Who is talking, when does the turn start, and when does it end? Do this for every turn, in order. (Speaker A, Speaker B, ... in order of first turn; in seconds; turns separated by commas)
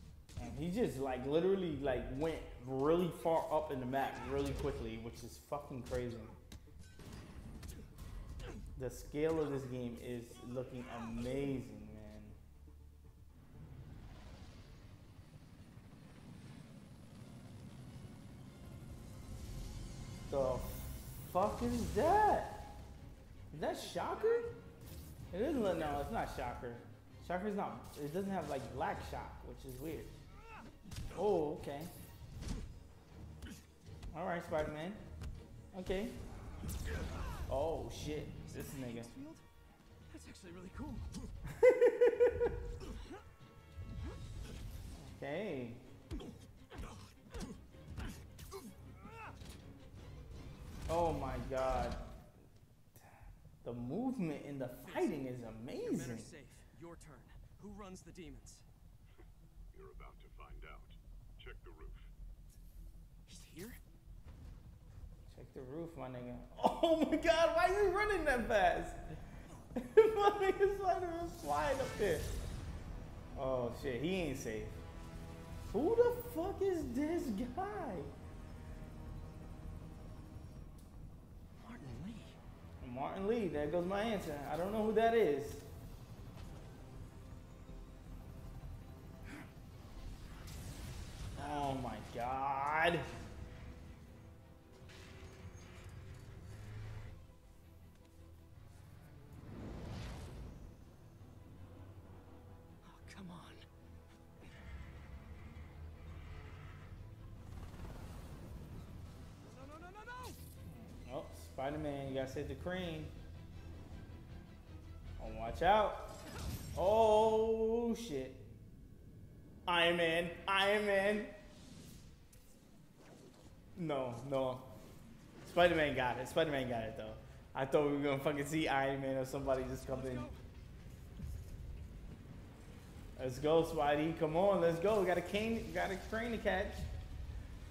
Speaker A: 0.4-6.4, Speaker A: 8.8-12.4, Speaker A: 20.3-22.7, Speaker A: 23.5-24.5, Speaker B: 23.8-24.5, Speaker A: 25.3-30.1, Speaker A: 31.1-31.9, Speaker A: 34.1-35.0, Speaker A: 35.7-36.2, Speaker A: 37.5-39.1, Speaker B: 38.5-39.4, Speaker B: 40.1-41.1, Speaker A: 41.5-42.5, Speaker A: 45.0-45.9, Speaker A: 50.9-52.1, Speaker A: 53.6-56.3, Speaker B: 54.8-55.2, Speaker B: 55.8-58.6, Speaker C: 59.7-62.1, Speaker B: 63.3-63.8, Speaker A: 65.3-69.0, Speaker A: 69.7-72.3, Speaker A: 73.3-74.8, Speaker A: 75.7-78.1, Speaker B: 81.6-82.4, Speaker A: 82.8-85.7, Speaker A: 91.3-93.1, Speaker B: 102.8-103.7, Speaker B: 109.4-110.4, Speaker A: 110.7-113.1, Speaker A: 115.2-116.1, Speaker A: 116.7-118.5, Speaker A: 119.7-121.3, Speaker A: 123.8-124.7, Speaker A: 125.4-130.3, Speaker B: 129.9-130.4, Speaker A: 133.2-136.9